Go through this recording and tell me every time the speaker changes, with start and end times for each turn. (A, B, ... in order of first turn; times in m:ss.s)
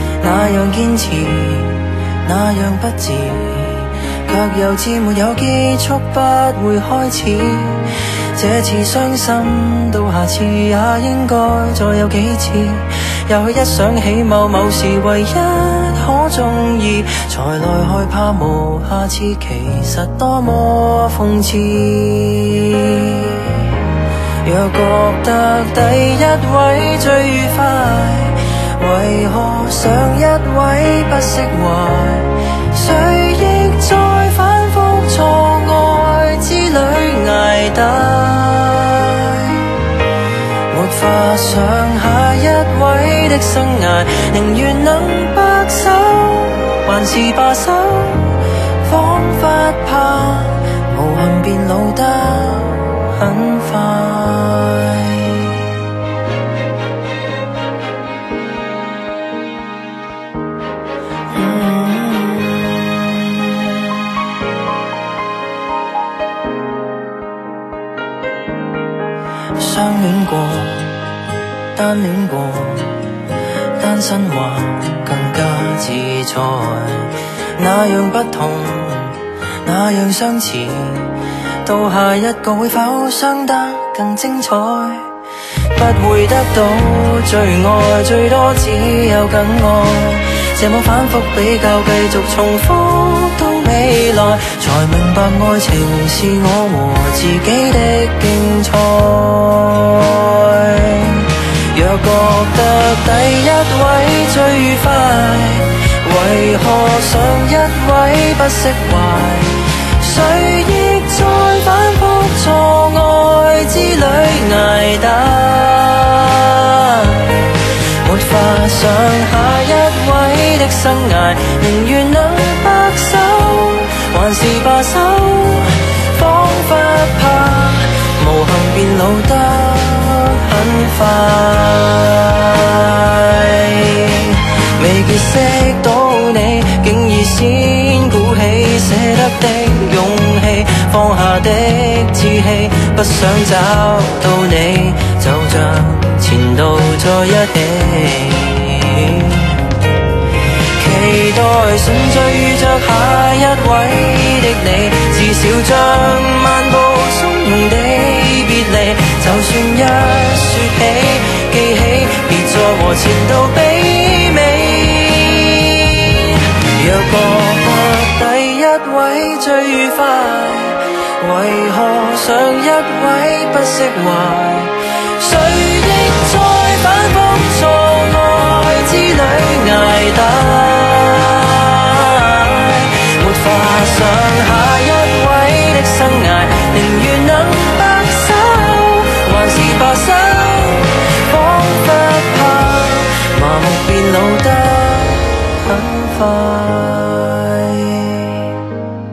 0:00.2-0:23.8 A
0:24.4-0:39.7 A
0:40.7-0:55.6 A
1:01.3-1:03.7 A
1:09.6-1:11.0 A
1:11.7-1:13.0 A
1:13.8-1:25.1 A
1:25.7-1:57.5 A
1:58.0-2:29.6 A
2:30.8-3:18.6 A